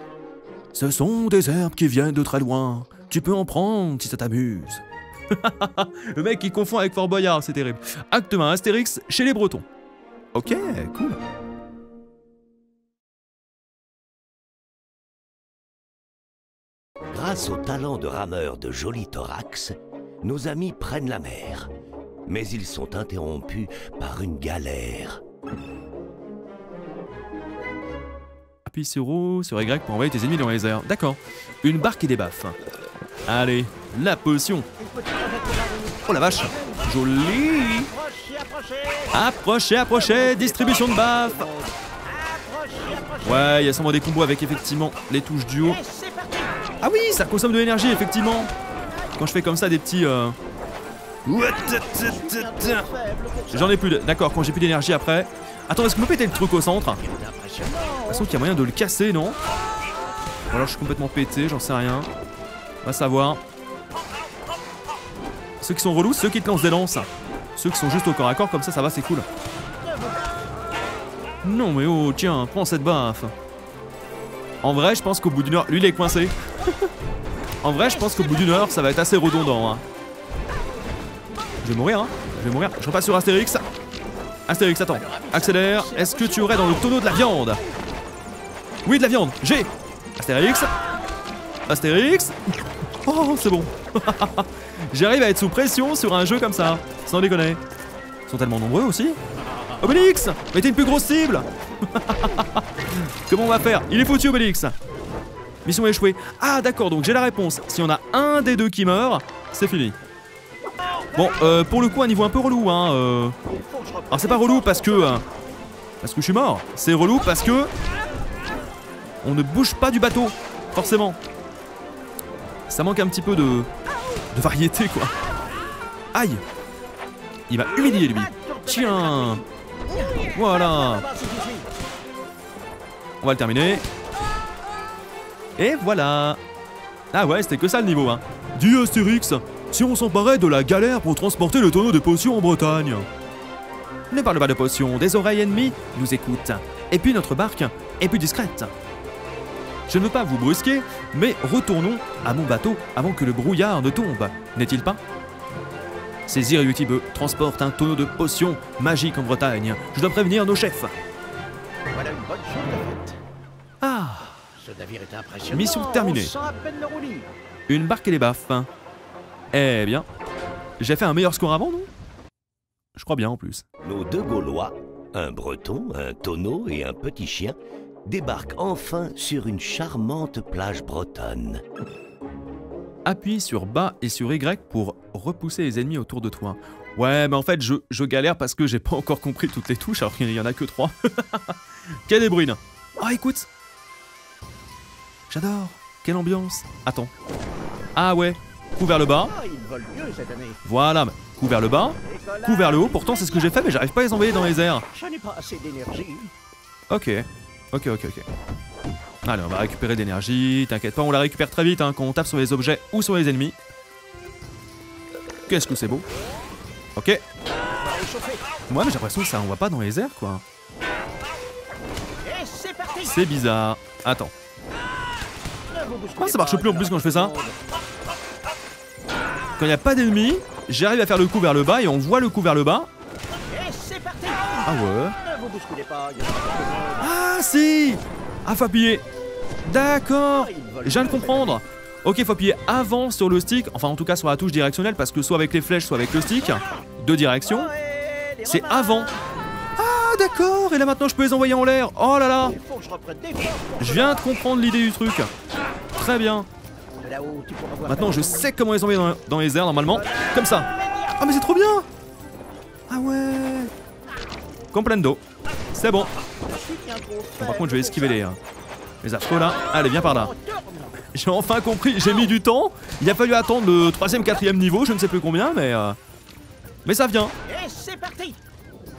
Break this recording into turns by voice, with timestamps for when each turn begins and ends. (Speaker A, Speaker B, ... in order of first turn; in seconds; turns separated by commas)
Speaker A: 0.7-9.6, Speaker A: 10.3-11.2, Speaker B: 17.1-21.7, Speaker B: 22.2-25.2, Speaker A: 28.6-32.5, Speaker A: 33.2-34.7, Speaker C: 34.8-36.8, Speaker A: 36.0-37.9, Speaker C: 37.9-39.1, Speaker A: 39.1-41.5, Speaker C: 39.9-43.7, Speaker A: 43.2-45.8, Speaker C: 45.6-46.7, Speaker A: 46.8-48.5, Speaker A: 49.2-50.4, Speaker A: 51.2-52.9, Speaker C: 51.4-53.8, Speaker A: 53.5-57.0, Speaker C: 57.0-58.3, Speaker A: 58.1-59.4, Speaker A: 60.5-62.1, Speaker A: 62.8-63.4, Speaker A: 65.6-69.2, Speaker C: 69.8-70.5, Speaker A: 71.4-73.3, Speaker A: 74.6-76.9, Speaker A: 77.6-79.8, Speaker C: 77.7-78.8, Speaker A: 81.6-83.6, Speaker A: 84.5-87.6, Speaker C: 84.9-87.1, Speaker A: 88.8-90.7, Speaker A: 91.7-92.4, Speaker A: 93.0-97.6, Speaker A: 98.3-99.2, Speaker A: 99.8-104.7, Speaker A: 105.6-110.0, Speaker A: 111.1-113.3, Speaker C: 113.5-115.2, Speaker A: 114.1-115.2, Speaker A: 116.0-117.7, Speaker A: 119.2-121.2, Speaker A: 122.7-123.7, Speaker A: 124.3-125.1, Speaker A: 126.1-126.4, Speaker A: 127.5-129.4, Speaker C: 127.8-131.7, Speaker A: 130.3-131.0, Speaker A: 133.2-133.8, Speaker A: 135.6-136.4, Speaker A: 137.1-143.1, Speaker A: 144.1-148.7, Speaker A: 149.9-155.0, Speaker A: 156.3-160.9, Speaker C: 161.9-163.2, Speaker A: 163.8-164.4, Speaker C: 164.6-167.3, Speaker A: 165.5-166.3, Speaker A: 167.7-168.7, Speaker A: 169.5-170.1, Speaker A: 170.8-171.9, Speaker A: 172.9-173.6, Speaker B: 173.8-181.6, Speaker A: 183.0-193.5, Speaker A: 195.3-197.1, Speaker A: 197.9-199.3, Speaker C: 199.2-200.6, Speaker A: 200.6-204.8, Speaker C: 202.0-203.6, Speaker C: 204.9-206.3, Speaker A: 206.9-208.2, Speaker A: 209.2-213.6, Speaker A: 215.5-216.0, Speaker A: 216.9-217.2, Speaker C: 217.7-218.4, Speaker A: 218.7-220.4, Speaker C: 222.2-223.3, Speaker A: 223.0-224.3, Speaker C: 225.7-227.6, Speaker A: 226.2-227.3, Speaker A: 229.6-232.9, Speaker C: 233.5-237.1, Speaker A: 234.6-235.2, Speaker A: 237.0-239.0, Speaker A: 239.6-247.7, Speaker C: 240.3-241.6, Speaker C: 247.4-249.2, Speaker A: 248.4-249.1, Speaker A: 249.8-252.5, Speaker C: 252.4-254.3, Speaker A: 253.8-255.3, Speaker A: 255.9-256.5, Speaker C: 257.0-258.5, Speaker A: 257.9-261.9, Speaker C: 259.8-261.2, Speaker A: 262.9-263.7, Speaker A: 264.7-265.2, Speaker A: 265.7-266.1, Speaker C: 266.4-268.2, Speaker A: 267.4-268.4, Speaker A: 269.0-270.3, Speaker C: 269.7-271.0, Speaker A: 271.1-276.0, Speaker A: 276.8-277.3, Speaker C: 277.4-278.4